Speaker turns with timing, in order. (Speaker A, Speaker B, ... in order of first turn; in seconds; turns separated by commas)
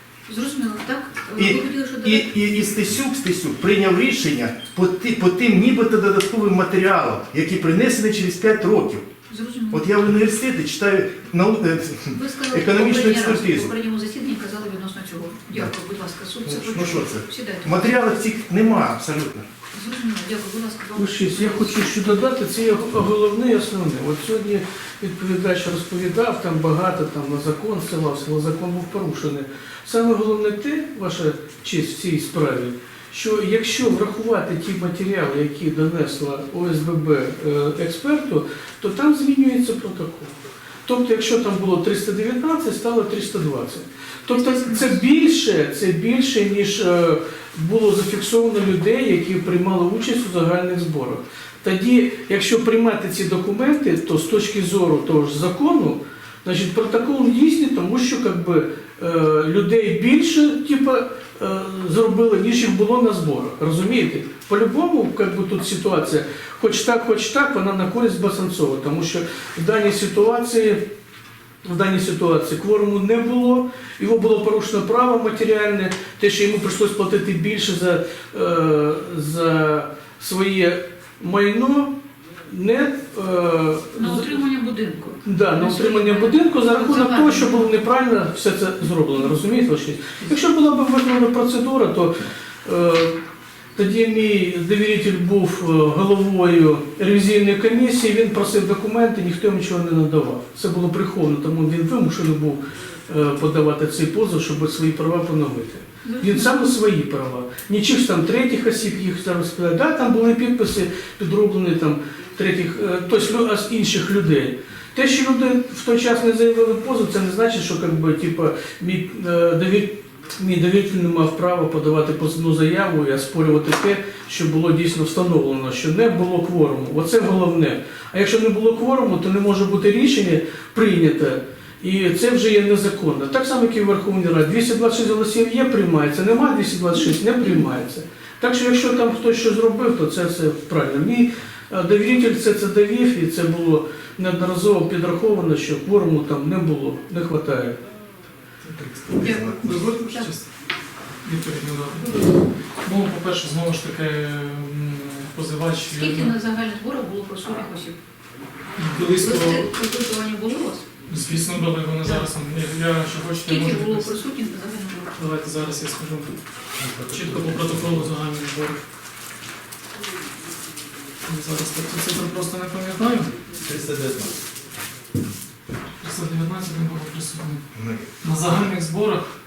Speaker A: 0.3-2.3, Speaker B: 1.4-9.1, Speaker A: 9.3-9.9, Speaker B: 9.7-13.7, Speaker A: 12.1-17.9, Speaker B: 16.4-19.5, Speaker A: 19.7-21.8, Speaker C: 21.0-70.9, Speaker A: 44.3-45.0, Speaker C: 71.6-84.3, Speaker A: 84.0-87.7, Speaker C: 85.2-93.2, Speaker C: 93.8-147.8, Speaker A: 106.0-106.7, Speaker B: 148.7-149.8, Speaker A: 149.2-150.3, Speaker D: 149.6-150.5, Speaker D: 151.2-156.3, Speaker A: 155.9-158.0, Speaker D: 158.8-159.7, Speaker A: 159.0-160.9, Speaker D: 161.1-164.1, Speaker A: 163.5-165.1, Speaker D: 165.2-166.4, Speaker B: 166.8-167.7, Speaker D: 167.1-168.8, Speaker D: 171.2-173.3, Speaker B: 173.6-174.4, Speaker D: 176.0-177.7, Speaker B: 177.7-178.1, Speaker D: 178.2-179.2